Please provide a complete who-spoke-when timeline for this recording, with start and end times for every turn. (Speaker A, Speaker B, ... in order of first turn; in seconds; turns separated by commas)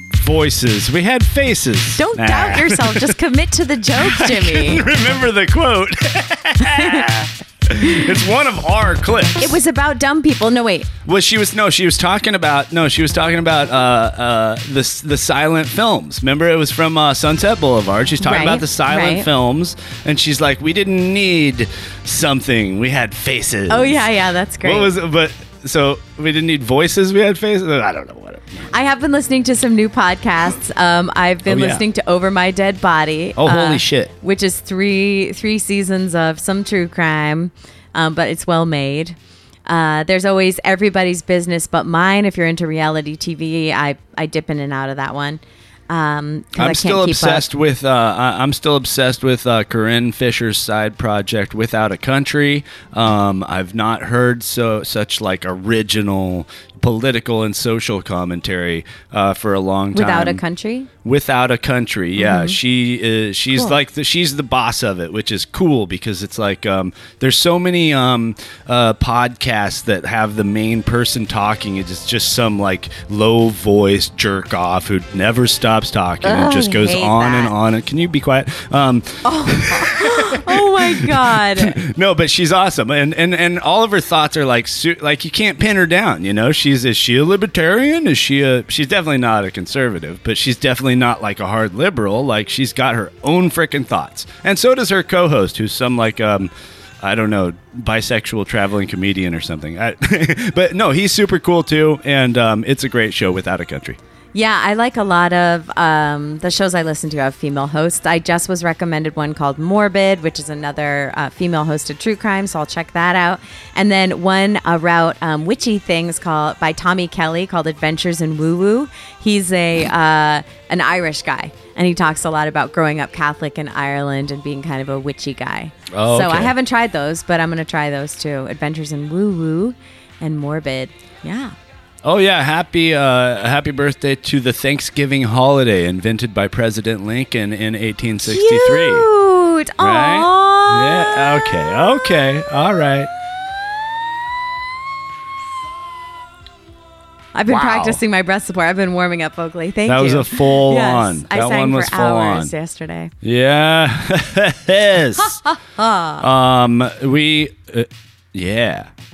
Speaker A: 0.1-3.1, Speaker B: 2.0-4.8, Speaker A: 4.0-9.6, Speaker B: 6.8-7.1, Speaker B: 9.4-10.9, Speaker A: 11.1-24.0, Speaker B: 18.2-19.3, Speaker B: 23.7-24.9, Speaker A: 24.6-28.7, Speaker B: 28.7-47.4, Speaker A: 31.5-31.8, Speaker A: 33.4-34.1, Speaker A: 46.6-60.4, Speaker B: 59.9-60.9, Speaker A: 61.0-104.0, Speaker B: 62.2-62.6, Speaker B: 76.2-77.5, Speaker B: 79.2-81.8, Speaker B: 104.3-131.6, Speaker A: 125.9-126.5, Speaker A: 132.0-139.1, Speaker B: 138.2-141.7, Speaker A: 139.8-143.1, Speaker B: 147.3-153.1, Speaker A: 147.5-148.0, Speaker A: 149.9-152.5, Speaker A: 153.2-155.4, Speaker B: 155.4-156.2, Speaker A: 156.2-158.9